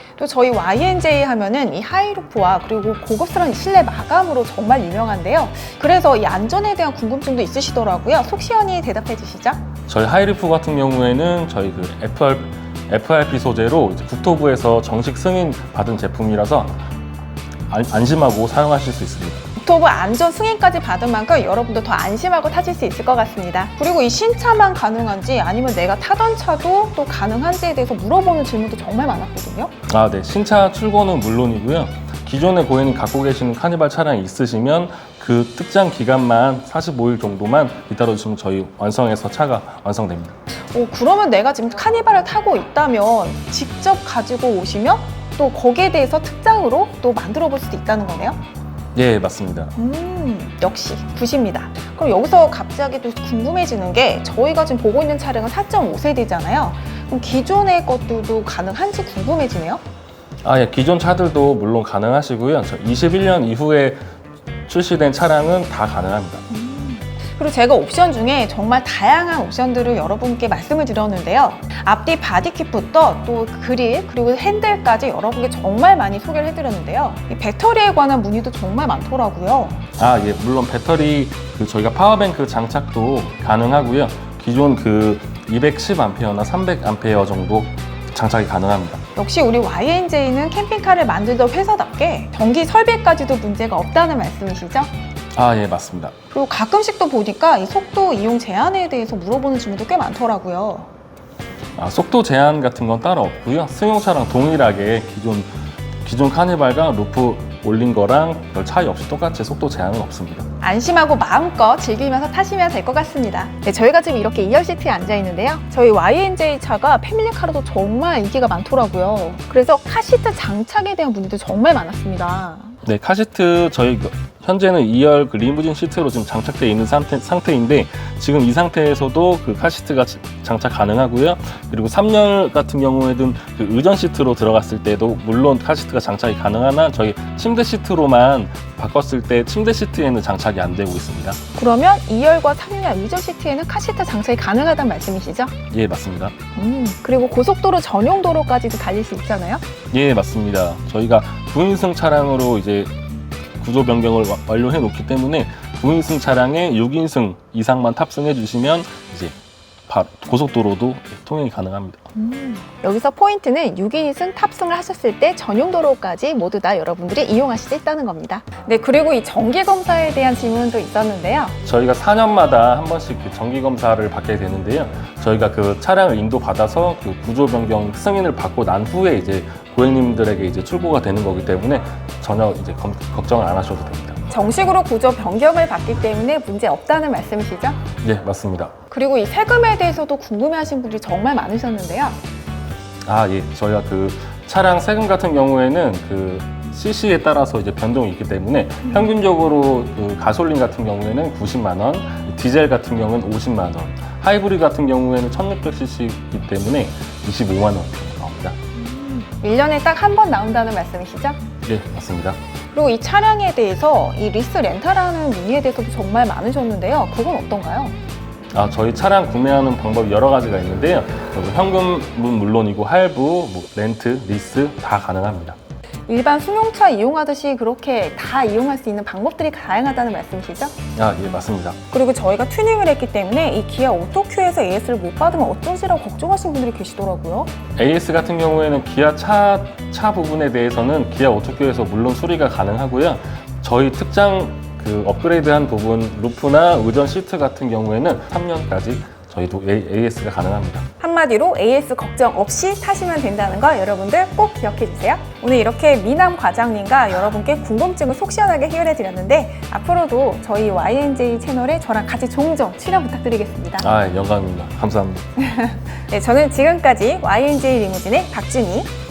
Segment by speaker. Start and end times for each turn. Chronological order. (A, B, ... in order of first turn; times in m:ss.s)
0:00.2-0:09.6 A
0:09.9-0:16.7 B
0:17.7-0:19.4 B
0:19.6-0:29.7 A
0:29.9-0:40.3 B
0:40.7-0:48.4 A
0:48.9-0:49.7 B
0:49.8-0:59.8 A
1:00.4-1:04.0 B
1:04.7-1:06.4 B
1:06.5-1:19.8 A
1:20.0-1:29.0 B
1:29.2-1:34.9 A
1:35.3-1:36.1 B
1:36.3-1:40.9 A
1:41.8-1:45.5 B
1:46.0-1:50.4 B
1:50.6-2:02.7 A
2:02.8-2:21.4 B
2:21.6-2:25.5 A
2:25.7-2:26.3 B
2:26.5-2:29.6 A
2:29.9-2:32.9 B
2:33.6-2:39.4 B
2:39.9-2:42.0 B
2:42.1-2:51.5 A
2:51.6-3:04.2 B
3:04.3-3:07.8 A
3:08.0-3:08.7 B
3:08.9-3:12.2 A
3:13.0-3:28.6 B
3:28.8-3:31.4 A
3:31.6-3:32.4 B
3:32.7-3:37.9 A
3:38.5-3:45.6 B
3:46.1-3:50.7 A
3:51.0-3:51.8 B
3:51.9-3:57.5 A
3:57.8-4:10.8 B
4:11.0-4:23.9 A
4:23.8-4:25.2 B
4:25.4-4:28.9 A